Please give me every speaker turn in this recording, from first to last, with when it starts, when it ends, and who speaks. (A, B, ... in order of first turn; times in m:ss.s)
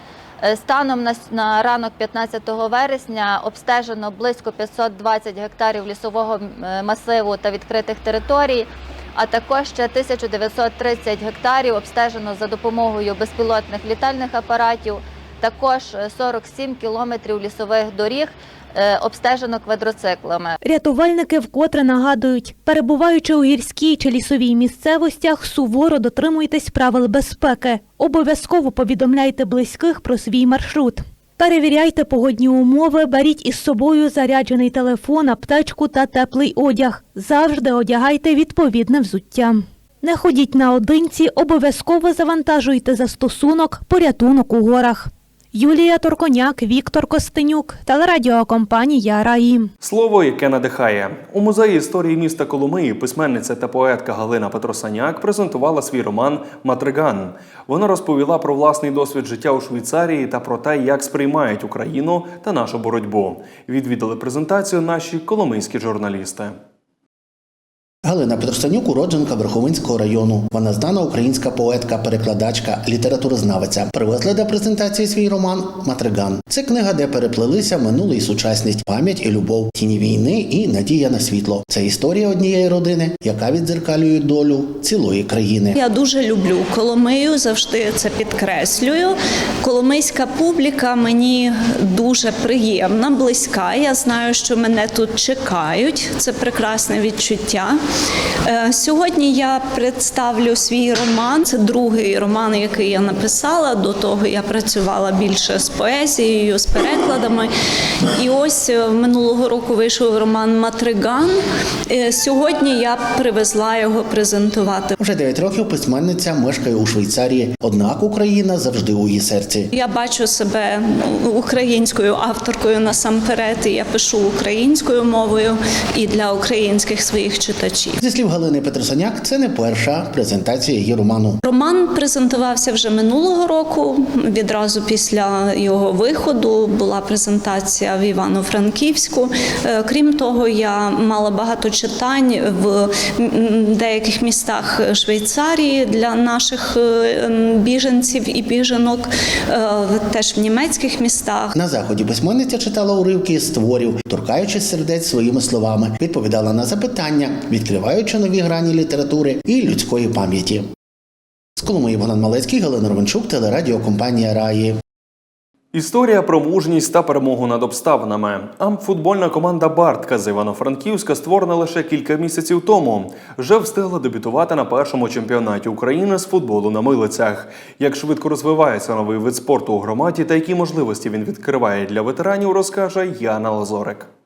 0:00.4-0:20.6 A
0:20.6-0:49.7 B
0:49.8-1:06.5 C
1:08.0-1:25.8 D
1:25.7-1:37.8 E
1:38.4-1:47.5 E
1:48.2-1:51.4 E
1:51.9-1:54.9 E
1:55.0-1:59.7 D
1:59.7-2:08.0 E
2:08.0-2:11.4 D
2:11.4-2:31.5 E
2:31.5-2:40.6 D
2:41.6-2:44.8 D
2:45.7-3:04.1 C